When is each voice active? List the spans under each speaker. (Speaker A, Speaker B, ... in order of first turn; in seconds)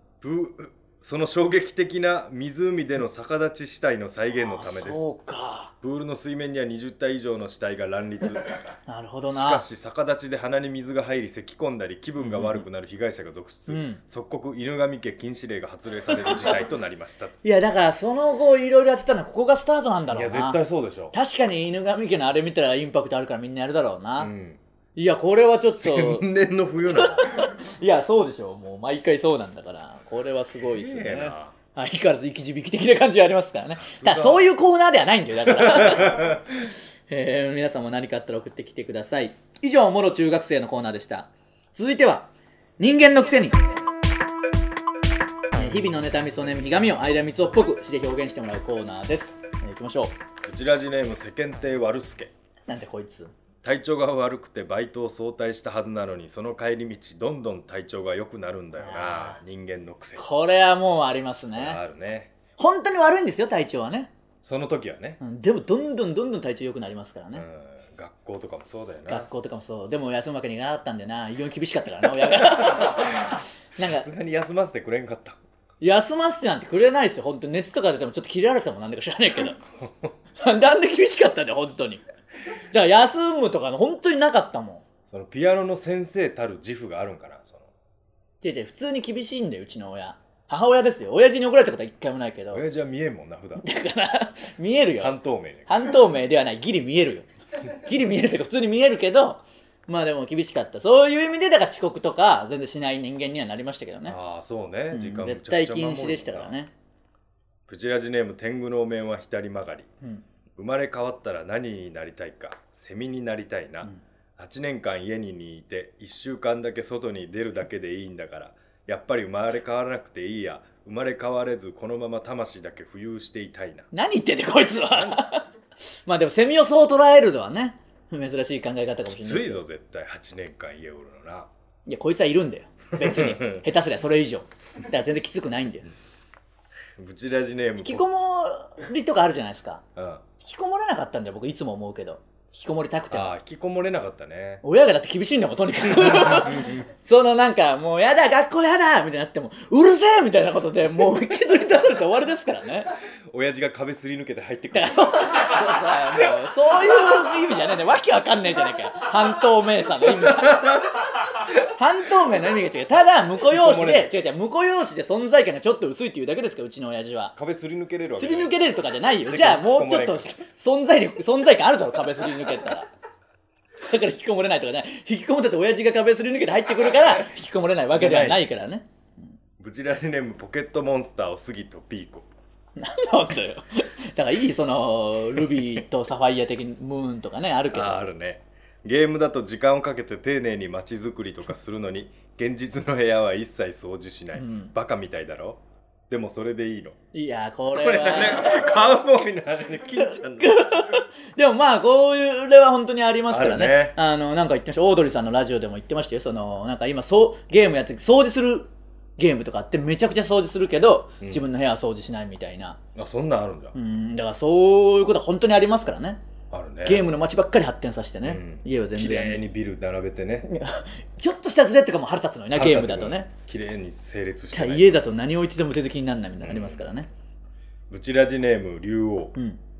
Speaker A: 0.2-5.0, 5.8-8.6, 9.3-17.4, 20.1-21.1, 24.2-24.6, 25.8-27.4, 30.6-31.5, 33.6-34.5, 35.5-36.6, 50.5-52.3, 53.6-60.2, 61.5-62.3, 64.4-65.2, 67.3-69.3, 72.4-75.4, 79.8-80.1, 85.1-87.7, 92.5-93.6, 95.0-95.7, 104.1-106.5, 107.7-109.9, 110.5-123.9, 124.9-125.2, 129.1-131.5, 133.0-133.6, 137.0-138.0, 139.9-140.2, 143.1-144.6, 145.9-146.8, 153.3-155.6, 163.5-164.1, 167.3-168.6, 169.2-170.3, 177.9-178.4, 179.6-182.3, 187.7-197.0, 197.7-201.0, 203.3-204.0, 212.9-213.7, 216.5-217.1, 218.2-220.5, 222.5-225.0, 226.4-226.8, 227.9-229.3
Speaker B: 4.4-5.7, 8.9-9.6, 12.2-12.6, 13.7-14.0, 17.4-20.6, 21.1-24.3, 24.9-26.2, 26.9-36.4, 37.1-43.6, 45.5-50.1, 52.7-53.3, 58.8-59.4, 60.2-61.8, 62.6-64.1, 65.2-67.4, 69.1-74.1, 75.8-79.6, 80.4-82.0, 82.7-84.8, 88.4-92.6, 93.6-95.1, 95.7-104.2, 104.9-106.7, 123.9-125.5, 126.0-129.6, 131.8-135.9, 137.8-139.8, 140.4-143.3, 144.6-152.9, 154.7-160.8, 161.4-167.3, 168.2-172.9, 173.8-178.9, 182.8-188.0, 194.4-194.7, 197.1-198.8, 200.4-212.8, 213.7-216.2, 216.8-219.4, 220.4-223.3, 224.5-227.1